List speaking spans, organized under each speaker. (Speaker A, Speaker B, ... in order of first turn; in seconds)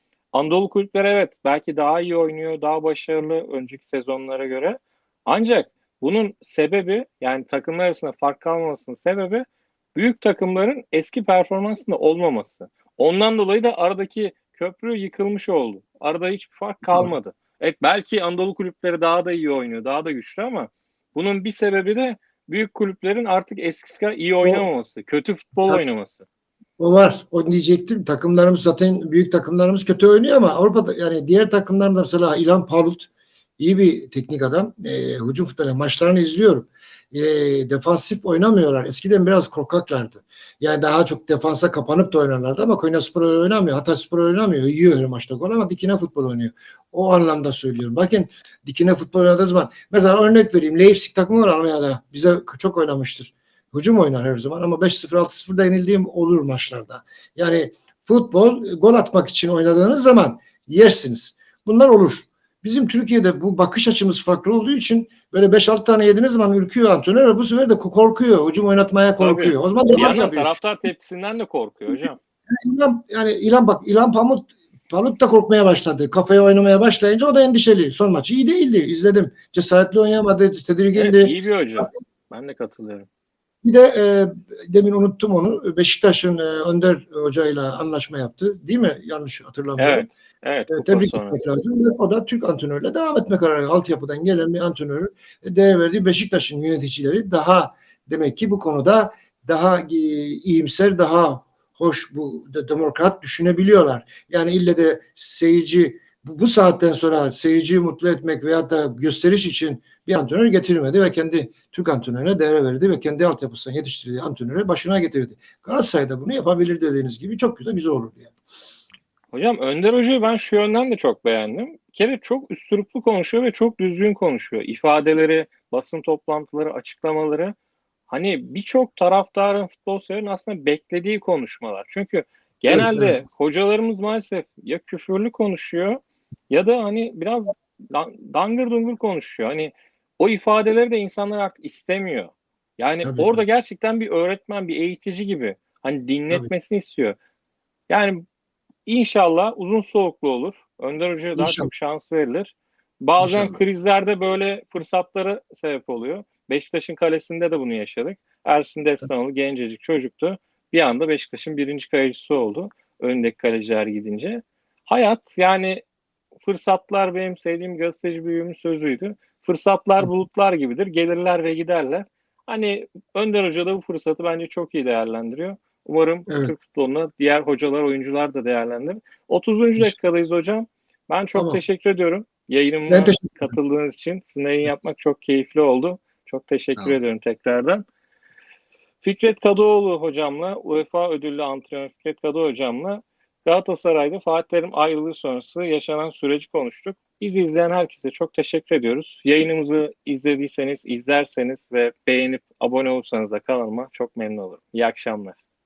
Speaker A: 0.3-26.2, 69.2-72.2, 80.9-83.1, 89.8-91.4, 119.3-127.5, 128.1-147.2, 147.9-148.2, 148.9-165.8, 166.4-187.8, 189.0-205.4
Speaker B: 16.9-17.1, 26.8-70.5, 72.5-81.9, 83.6-90.1, 90.7-118.3, 132.7-133.2, 143.0-143.4, 151.4-151.7, 153.2-153.6, 176.3-176.5, 181.4-181.6, 182.9-183.6